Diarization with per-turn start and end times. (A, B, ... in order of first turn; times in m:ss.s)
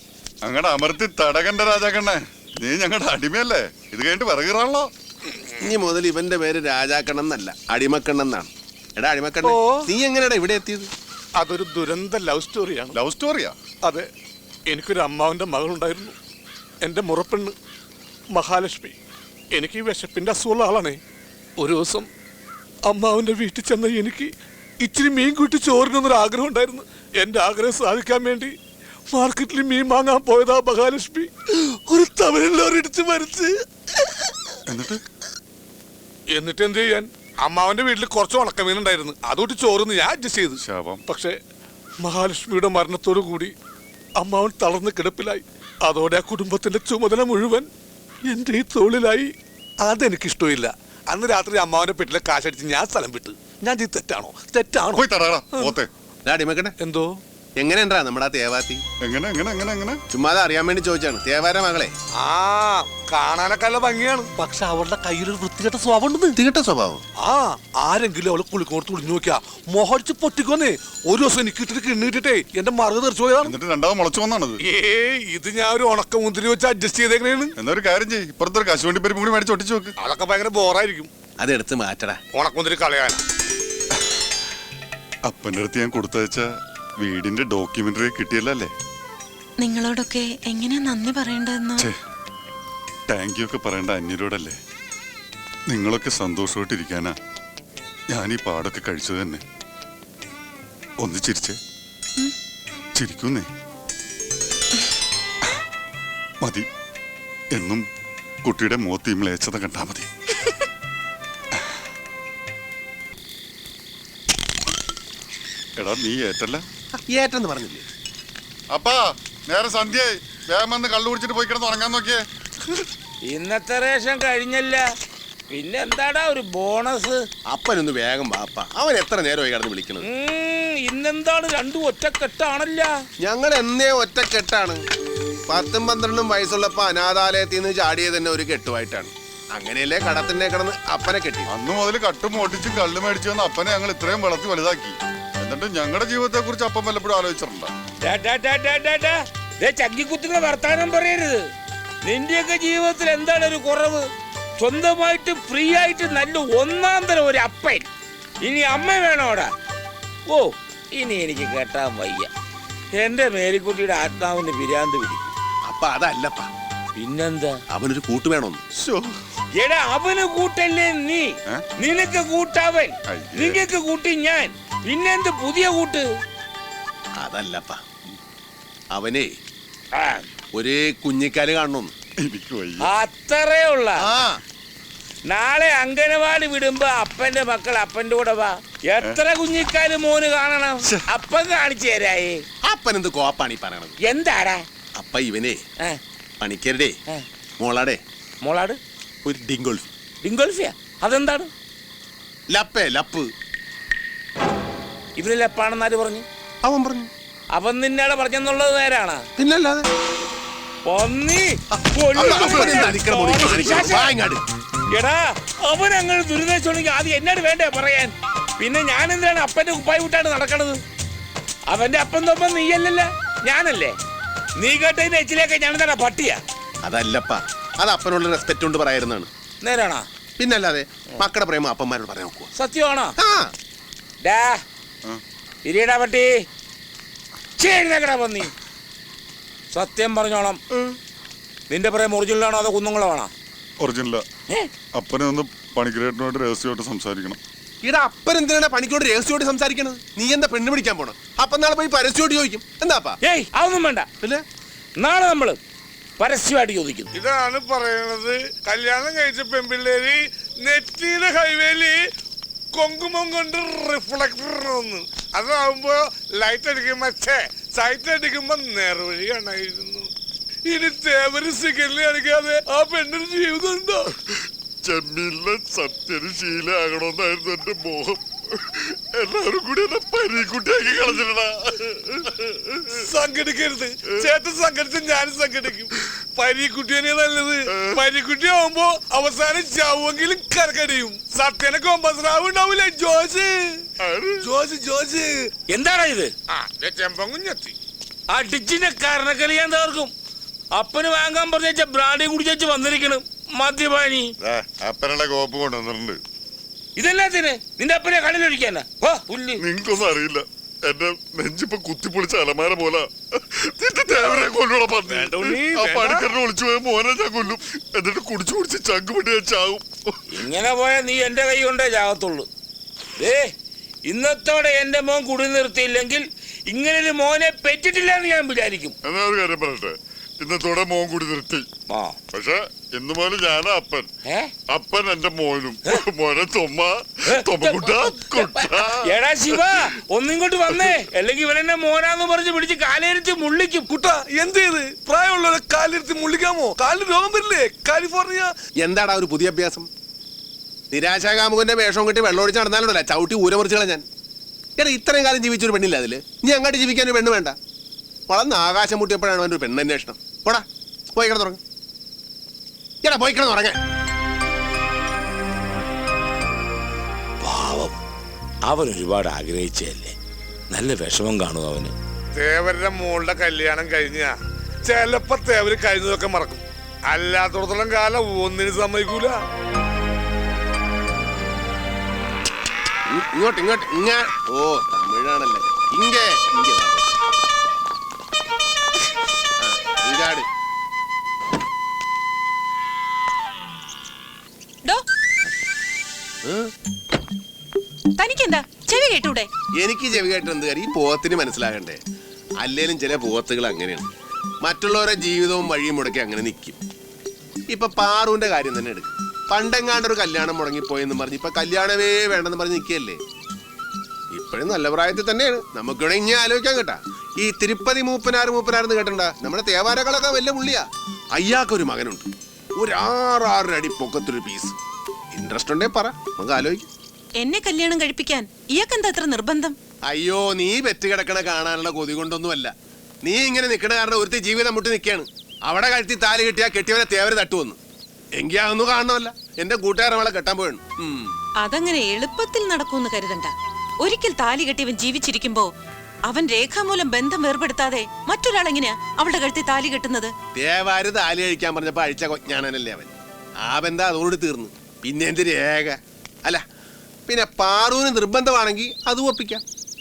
0:00.4-0:04.9 A
0:05.6-0:10.9 B
0:09.4-0:09.8 C
0:11.4-0:13.0 C
0:12.9-0:13.6 A
0:13.8-0:14.1 C
0:14.7-0:16.2 C
0:16.8-0:17.5 C
0:18.3-0:19.0 C
0:19.5-0:21.0 C
0:21.6-0:22.1 C
0:22.9-0:28.5 C
0:29.1-0:33.6 C
0:34.7-0:35.0 A
0:36.3-0:41.4 C
0:40.6-0:41.0 A
0:42.0-0:43.5 C
0:44.2-0:47.7 C
0:48.3-0:55.7 C
0:55.0-0:55.9 A
0:56.2-0:56.7 B
0:56.8-0:57.2 C
0:57.6-0:58.8 B
0:59.0-1:00.0 A
1:00.1-1:01.9 B
1:02.2-1:06.4 C
1:06.4-1:07.0 B
1:07.2-1:13.6 C
1:13.4-1:14.6 A
1:14.6-1:17.5 C
1:17.6-1:19.9 A
1:20.0-1:21.1 C
1:21.4-1:22.2 B
1:22.3-1:23.2 C
1:25.3-1:26.5 A
1:27.0-1:28.7 A
1:29.6-1:31.9 D
1:33.1-1:34.6 A
1:35.7-1:37.2 A
1:38.1-1:39.4 A
1:41.0-1:41.6 A
1:43.0-1:43.5 A
1:46.4-1:46.7 A
1:47.5-1:47.8 A
1:48.4-1:50.1 A
1:55.8-1:56.6 A
1:57.0-1:57.9 B
1:58.7-2:02.2 A
2:03.3-2:04.8 E
2:05.5-2:07.2 E
2:07.5-2:10.1 B
2:10.0-2:12.9 E
2:13.2-2:14.8 B
2:15.5-2:21.5 B
2:21.5-2:27.7 A
2:28.0-2:31.4 E
2:32.0-2:34.0 E
2:34.6-2:37.9 E
2:38.4-2:39.5 E
2:40.3-2:42.3 E
2:43.0-2:45.3 E
2:45.7-2:46.5 B
2:47.0-2:47.6 E
2:47.7-2:48.6 B
2:48.8-2:49.1 A
2:49.6-2:56.1 E
2:53.1-2:53.6 A
2:57.2-2:57.8 B
2:58.9-2:59.3 B
3:00.0-3:00.2 E
3:00.5-3:01.9 B
3:02.2-3:02.9 A
3:02.8-3:04.0 E
3:04.0-3:04.4 B
3:05.3-3:12.4 E
3:12.6-3:14.0 B
3:14.0-3:14.6 E
3:15.0-3:15.6 B
3:16.4-3:17.0 B
3:17.6-3:18.0 B
3:18.4-3:18.8 E
3:19.2-3:19.9 B
3:20.2-3:21.5 E
3:22.5-3:23.3 B
3:25.2-3:26.2 E
3:26.6-3:27.1 B
3:27.5-3:29.2 E
3:29.4-3:29.9 B
3:30.8-3:34.1 E
3:31.7-3:34.4 B
3:34.9-3:40.8 E
3:41.7-3:44.0 E
3:44.6-3:46.4 E
3:46.8-3:49.3 B
3:49.6-3:50.0 E
3:50.4-3:52.5 B
3:52.6-3:53.2 E
3:53.2-3:53.5 B
3:54.2-3:54.6 E
3:55.6-3:56.3 E
3:57.6-3:58.5 E
3:59.7-4:00.6 E
4:01.7-4:03.3 E
4:03.8-4:04.2 A
4:04.9-4:07.4 A
4:07.8-4:13.2 B
4:13.2-4:14.1 E
4:15.0-4:15.6 E
4:16.2-4:17.1 E
4:17.1-4:22.0 C
4:22.7-4:30.1 C
4:30.7-4:34.1 C
4:34.8-4:43.0 A
4:42.9-4:53.9 C
4:54.0-4:54.5 A
4:54.4-4:55.5 C
4:55.7-4:56.3 E
4:56.5-4:57.7 C
4:58.3-5:00.1 E
5:00.7-5:04.3 E
5:04.4-5:06.2 A
5:07.0-5:09.6 E
5:09.6-5:20.2 A
5:15.1-5:16.3 C
5:20.3-5:22.5 E
5:23.2-5:23.5 E
5:24.1-5:29.0 E
5:29.0-5:31.7 A
5:31.9-5:32.2 E
5:32.3-5:34.1 A
5:34.2-5:34.5 E
5:34.7-5:39.6 A
5:37.3-5:43.9 E
5:43.9-5:48.5 C
5:48.8-5:49.9 B
5:50.9-5:54.0 B
5:54.8-5:57.6 B
5:58.3-6:01.6 B
6:03.0-6:03.8 B
6:07.4-6:08.0 E
6:08.7-6:10.1 E
6:10.7-6:11.9 E
6:12.4-6:14.3 C
6:14.8-6:19.4 C
6:23.1-6:27.2 B
6:29.6-6:30.5 B
6:36.4-6:36.7 B
6:38.2-6:39.5 D
6:39.8-6:42.0 B
6:42.6-6:44.1 B
6:44.6-6:46.8 B
6:47.7-6:53.2 B
6:54.3-7:04.8 B
7:05.3-7:06.8 B
7:07.4-7:09.8 D
7:10.1-7:17.8 B
7:18.4-7:21.3 B
7:21.6-7:25.7 D
7:26.3-7:30.3 D
7:30.6-7:36.6 B
7:37.3-7:39.6 B